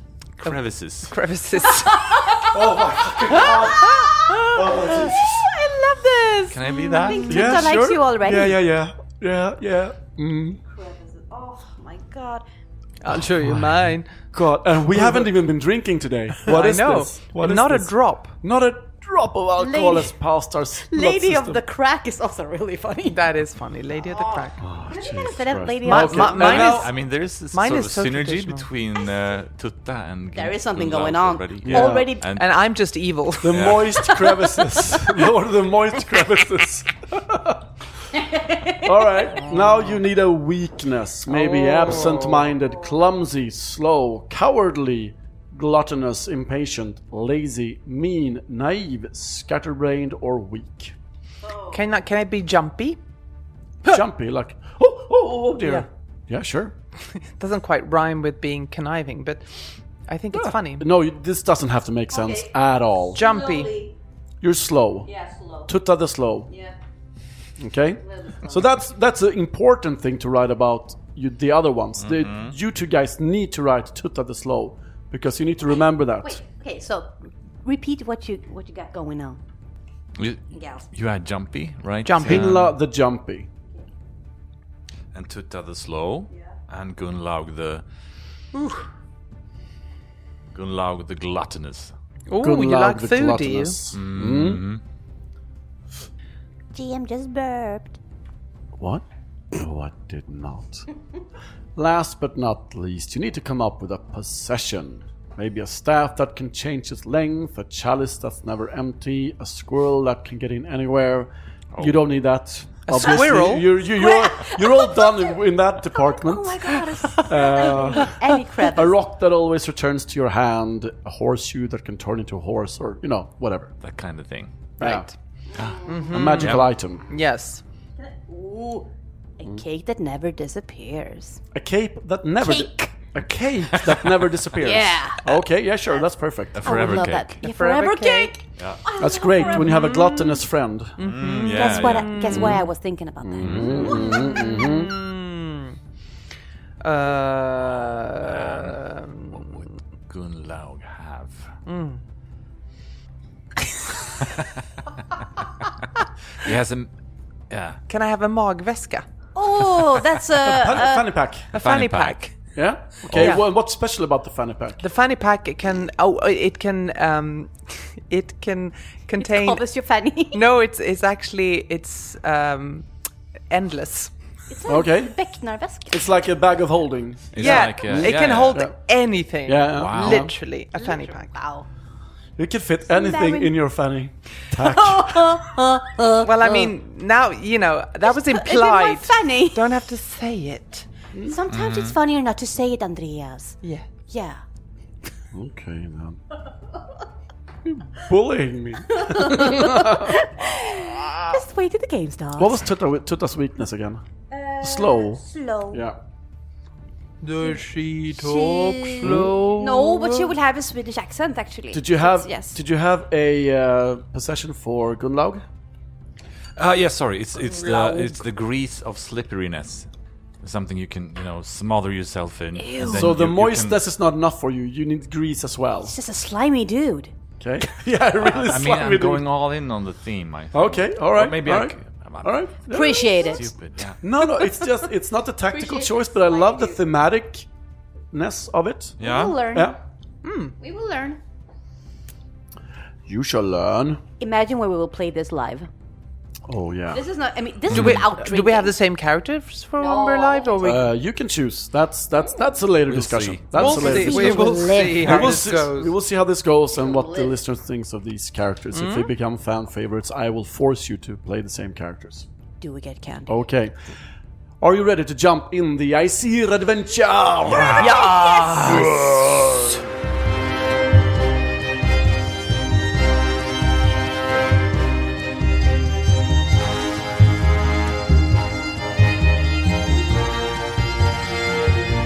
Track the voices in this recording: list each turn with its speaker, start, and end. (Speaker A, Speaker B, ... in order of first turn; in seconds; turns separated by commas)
Speaker A: 0.4-1.1, Speaker B: 1.1-2.2, Speaker C: 1.9-4.1, Speaker D: 2.5-5.5, Speaker B: 3.3-7.2, Speaker A: 6.5-7.6, Speaker C: 6.9-8.6, Speaker D: 7.2-10.6, Speaker C: 10.7-12.4, Speaker B: 13.0-14.1, Speaker D: 14.3-21.6, Speaker B: 16.5-18.4, Speaker C: 19.6-20.1, Speaker C: 20.9-23.3, Speaker B: 23.1-24.6, Speaker C: 24.1-26.8, Speaker D: 24.6-26.9, Speaker B: 25.8-26.9, Speaker A: 26.1-32.5, Speaker B: 27.5-28.7, Speaker C: 30.3-32.3, Speaker D: 31.6-32.1, Speaker B: 32.3-33.8, Speaker D: 33.4-37.6, Speaker A: 33.5-34.1, Speaker C: 38.2-38.9, Speaker D: 38.8-51.0, Speaker B: 39.4-39.8, Speaker B: 41.3-42.5, Speaker B: 51.7-53.0, Speaker D: 53.9-56.7, Speaker B: 57.1-59.5, Speaker B: 60.1-60.9, Speaker D: 60.3-63.2, Speaker C: 62.1-62.5, Speaker B: 63.1-63.8, Speaker C: 63.1-64.0, Speaker D: 64.4-65.1, Speaker C: 65.1-65.7, Speaker D: 65.7-66.5, Speaker D: 67.6-76.4, Speaker C: 68.1-68.6, Speaker A: 72.0-72.5, Speaker C: 76.2-79.4, Speaker A: 80.2-82.8, Speaker C: 80.5-80.9, Speaker B: 82.0-82.5, Speaker D: 82.2-83.5, Speaker A: 85.1-87.8, Speaker A: 90.5-91.9, Speaker B: 92.3-93.8, Speaker D: 92.4-94.7, Speaker A: 93.9-94.8, Speaker C: 96.7-98.0, Speaker D: 98.8-100.9, Speaker D: 101.8-123.7, Speaker A: 111.7-112.0, Speaker B: 112.9-113.8, Speaker C: 113.9-115.4, Speaker C: 115.9-119.0, Speaker A: 123.8-124.5, Speaker D: 124.8-125.1, Speaker B: 124.8-125.1, Speaker A: 125.5-126.7, Speaker C: 125.6-126.2, Speaker B: 125.8-127.6, Speaker D: 126.1-127.0, Speaker C: 128.0-131.4, Speaker D: 131.5-136.9, Speaker C: 132.4-132.9, Speaker A: 133.7-134.1, Speaker C: 134.6-135.4, Speaker A: 136.5-137.4, Speaker C: 136.6-140.4, Speaker B: 137.4-138.4, Speaker A: 138.6-138.8, Speaker D: 139.0-141.0, Speaker B: 141.0-142.6, Speaker A: 141.0-142.5, Speaker C: 141.3-144.8, Speaker D: 142.3-142.7, Speaker D: 143.2-144.9, Speaker A: 143.4-144.1, Speaker B: 144.0-145.8, Speaker B: 146.8-149.6, Speaker A: 147.7-151.5, Speaker B: 151.7-152.0, Speaker A: 154.2-154.5, Speaker A: 156.3-156.9, Speaker A: 157.5-157.8, Speaker B: 157.9-159.1, Speaker C: 159.3-161.1, Speaker D: 160.4-161.5, Speaker B: 161.5-162.3, Speaker A: 161.5-162.2, Speaker D: 162.6-164.8, Speaker B: 163.0-163.4, Speaker B: 164.8-169.6, Speaker C: 169.2-170.4, Speaker B: 170.3-172.9, Speaker B: 173.5-174.1, Speaker C: 174.5-176.2, Speaker D: 174.7-175.2, Speaker D: 175.9-178.7, Speaker A: 177.3-178.6, Speaker B: 177.4-181.4, Speaker D: 179.5-180.3, Speaker A: 179.7-180.3, Speaker C: 180.8-181.7, Speaker D: 182.4-185.6, Speaker C: 182.9-183.5, Speaker C: 184.6-186.7, Speaker B: 186.2-190.9, Speaker C: 188.1-189.7, Speaker C: 191.2-194.4, Speaker A: 191.5-192.0, Speaker D: 195.3-196.2, Speaker D: 197.7-200.3, Speaker C: 199.0-202.6, Speaker D: 200.9-201.4, Speaker D: 202.4-204.0, Speaker C: 204.3-205.8, Speaker D: 204.6-206.0, Speaker B: 207.2-210.3, Speaker C: 208.2-212.6, Speaker D: 209.0-209.4, Speaker D: 211.7-215.4, Speaker A: 216.6-219.9, Speaker A: 220.4-223.8, Speaker C: 222.6-223.1, Speaker D: 222.9-226.0, Speaker C: 225.8-227.1, Speaker D: 227.4-229.3, Speaker A: 228.2-232.5, Speaker D: 230.5-233.4, Speaker C: 232.7-233.5, Speaker A: 233.2-234.0, Speaker D: 234.0-237.5, Speaker C: 235.5-236.8, Speaker D: 238.1-239.0, Speaker A: 239.0-239.4, Speaker C: 239.0-239.8, Speaker D: 239.5-239.8, Speaker B: 240.2-240.6, Speaker C: 240.6-241.2, Speaker D: 243.1-244.0, Speaker C: 244.2-245.7, Speaker D: 246.5-247.0, Speaker C: 246.9-248.7, Speaker A: 247.7-248.1, Speaker B: 247.7-250.9, Speaker C: 249.8-250.8, Speaker D: 250.6-262.3, Speaker A: 252.9-253.9, Speaker B: 253.6-255.9, Speaker C: 253.6-255.4, Speaker C: 256.8-257.4, Speaker B: 258.7-259.1, Speaker C: 262.6-263.3, Speaker D: 263.3-263.8, Speaker D: 264.6-268.9, Speaker A: 267.5-269.8, Speaker C: 267.7-268.9